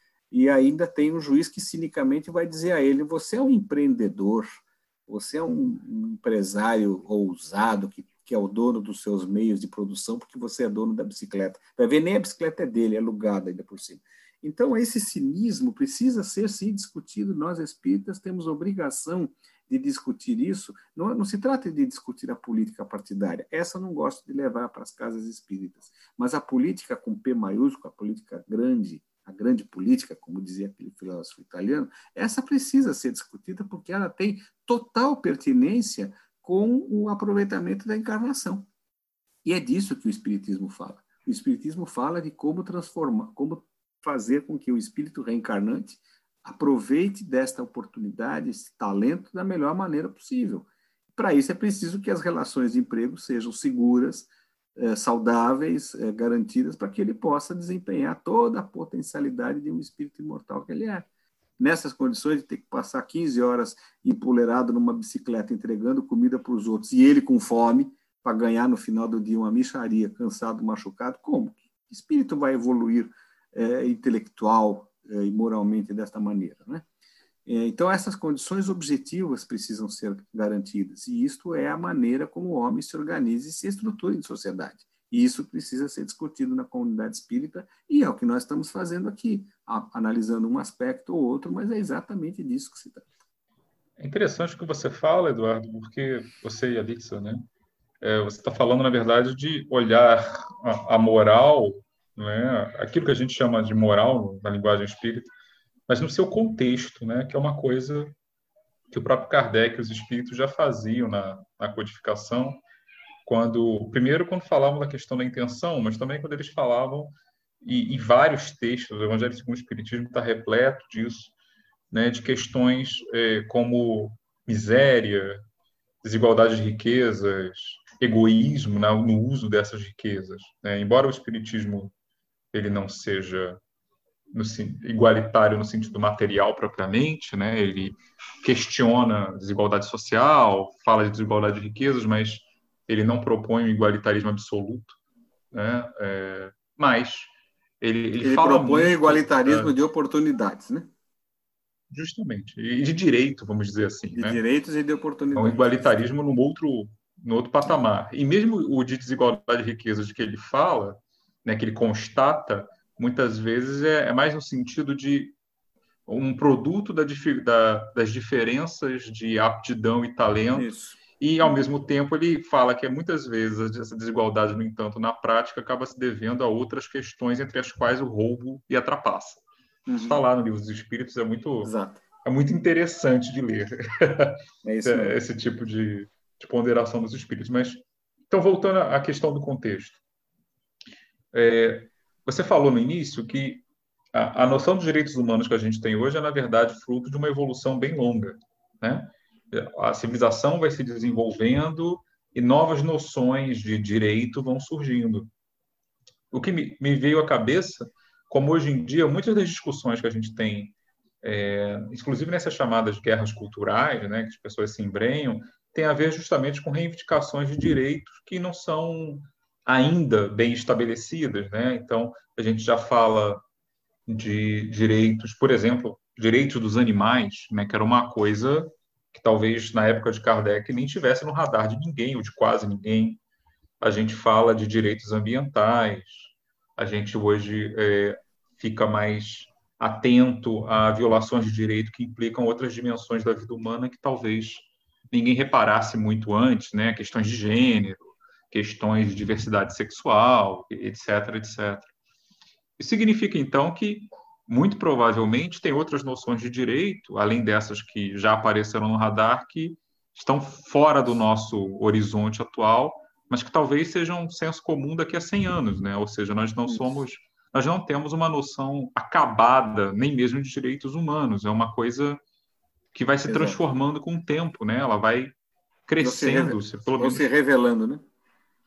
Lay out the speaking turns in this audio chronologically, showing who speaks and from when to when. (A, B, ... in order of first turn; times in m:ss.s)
0:00.3-0:38.7 A
0:39.4-1:01.1 A
1:01.6-1:16.8 A
1:17.4-1:33.0 A
1:34.0-1:37.4 B
1:38.0-1:45.3 B
1:45.9-1:48.1 B
1:48.9-1:52.6 B
1:53.2-2:01.3 B
2:01.9-2:05.4 B
2:06.0-2:11.9 B
2:12.5-2:13.6 B
2:14.3-2:25.0 B
2:25.5-2:29.7 B
2:28.2-2:30.9 A
2:31.9-2:34.4 B
2:34.1-2:36.0 A
2:35.3-2:45.4 B
2:46.1-3:10.0 B
2:50.5-2:51.6 A
2:59.9-3:00.2 A
3:01.6-3:02.0 A
3:04.6-3:05.1 A
3:11.3-3:13.6 B
3:14.1-3:25.3 B
3:26.3-3:43.4 B
3:44.1-3:53.2 B
3:53.8-4:11.9 B
4:12.8-4:32.2 B
4:26.6-4:27.0 A
4:32.9-4:35.3 B
4:33.3-4:33.6 A
4:35.9-4:37.3 B
4:36.0-4:38.0 A